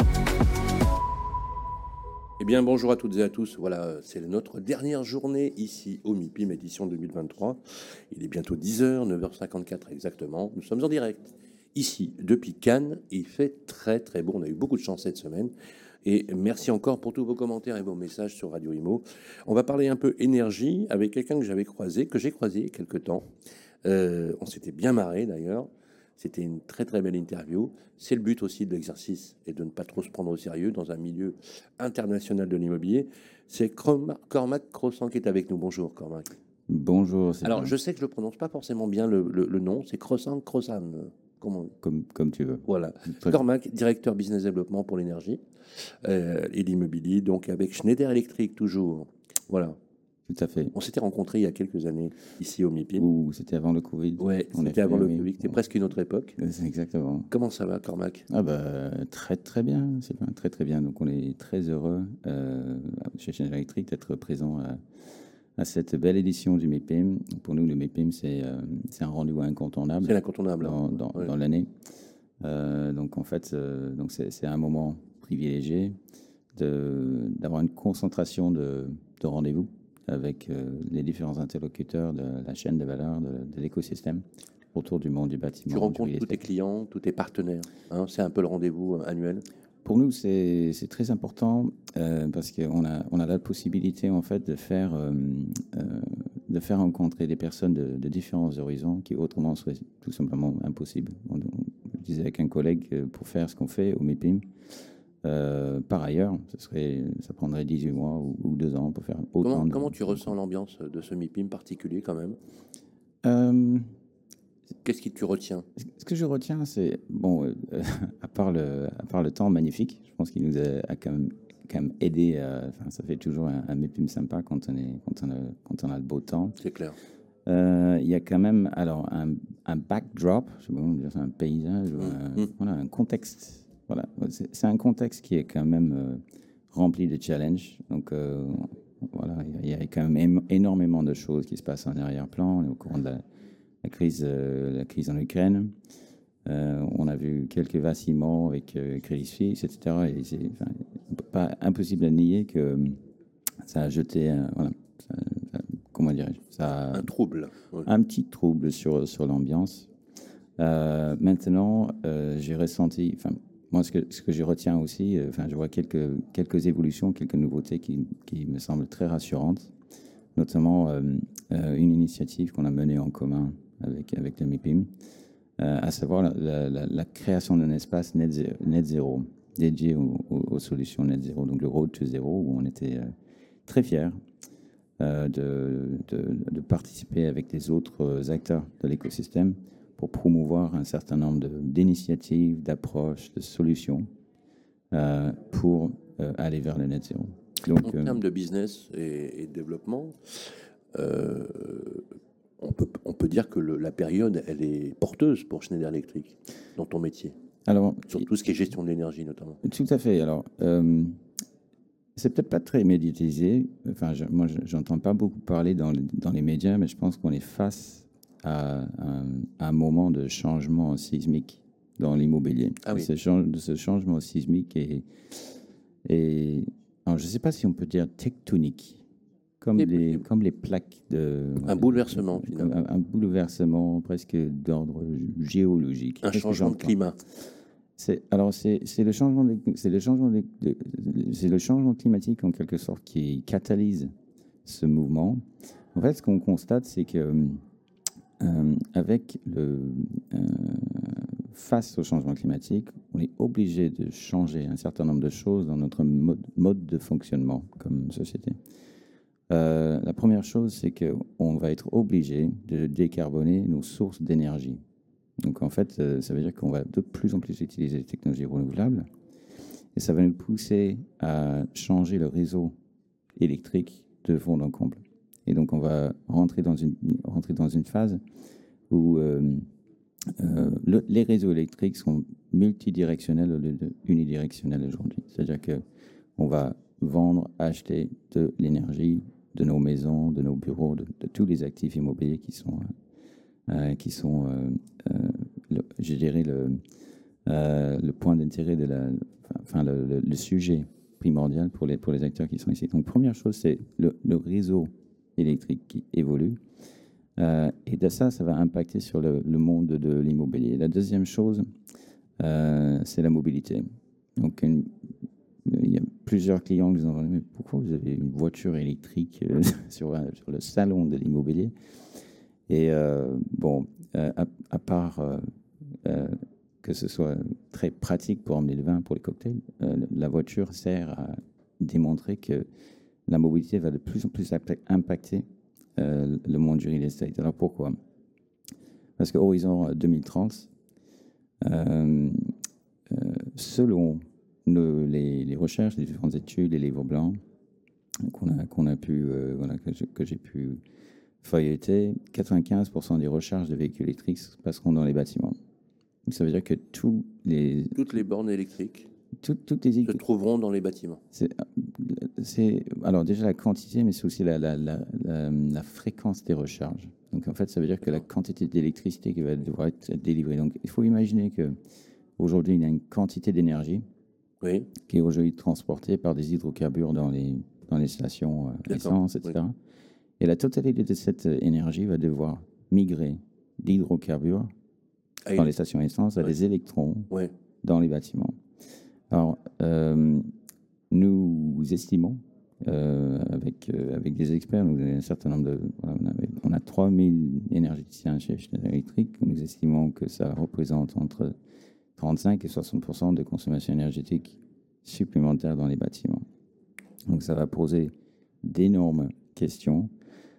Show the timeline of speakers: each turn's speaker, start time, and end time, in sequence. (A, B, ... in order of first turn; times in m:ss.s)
0:02.4-0:15.5 A
0:16.0-0:23.3 A
0:23.8-0:36.3 A
0:36.7-0:37.7 B
0:37.4-0:41.7 A
0:41.8-0:43.4 B
0:42.6-0:45.4 A
0:46.0-0:49.8 A
0:50.3-0:50.7 B
0:50.7-0:53.1 A
0:53.0-0:55.6 B
0:54.2-0:56.4 A
0:56.4-0:57.3 B
0:57.3-0:58.3 A
0:58.3-1:04.8 B
1:05.6-1:11.7 B
1:10.0-1:11.3 A
1:12.4-1:16.0 B
1:16.6-1:26.4 B
1:25.7-1:29.4 A
1:29.8-1:44.4 B
1:45.2-1:50.3 B
1:49.4-1:52.4 A
1:53.2-1:53.9 B
1:54.8-1:55.6 A
1:55.8-2:06.6 B
2:06.6-2:07.0 A
2:07.4-2:23.2 B
2:12.0-2:12.5 A
2:23.8-2:25.7 B
2:26.4-2:33.0 B
2:33.6-2:37.1 B
2:36.9-2:37.9 A
2:37.8-2:39.9 B
2:40.6-2:49.7 B
2:50.3-2:54.9 B
2:55.6-3:03.1 B
3:03.6-3:04.2 B
3:05.0-3:14.0 B
3:14.9-3:18.2 B
3:17.8-3:20.2 A
3:20.9-3:22.0 A
3:22.6-3:27.3 A
3:27.7-3:28.3 B
3:28.1-3:29.6 A
3:29.6-3:31.1 B
3:32.2-3:45.5 B
3:42.8-3:43.1 A
3:46.0-3:49.0 B
3:49.6-3:57.0 B
3:49.8-3:50.2 A
3:51.6-3:52.7 A
3:56.2-3:57.2 A
3:58.0-4:04.1 B
4:04.6-4:05.4 B
4:05.9-4:07.6 B
4:08.4-4:18.6 B
4:19.5-4:24.8 B
4:25.4-4:29.0 B
4:29.9-4:32.7 B
4:33.4-4:38.2 B
4:38.9-4:39.6 B
4:40.3-4:45.8 B
4:46.4-4:52.9 B
4:53.7-4:56.8 B
4:57.4-5:06.6 B
5:07.4-5:11.7 B
5:12.4-5:13.8 B
5:14.4-5:14.9 B
5:15.6-5:21.7 B
5:22.7-5:25.4 B
5:26.0-5:32.6 B
5:33.3-5:35.4 B
5:36.0-5:37.9 B
5:39.2-5:40.7 B
5:41.6-5:42.5 B
5:43.1-5:47.4 B
5:48.2-5:50.8 B
5:51.4-5:55.6 B
5:56.3-5:58.1 B
5:57.9-5:59.1 A
5:59.4-6:00.2 B
6:00.0-6:01.2 A
6:01.3-6:11.8 B
6:12.4-6:14.0 B
6:14.6-6:14.9 A
6:15.1-6:19.8 B
6:18.9-6:19.5 A
6:20.4-6:24.7 B
6:25.4-6:25.7 A
6:25.6-6:27.3 B
6:27.8-6:28.5 B
6:29.3-6:30.5 B
6:31.1-6:41.5 B
6:42.2-6:46.4 B
6:47.3-6:48.1 B
6:48.6-6:50.1 B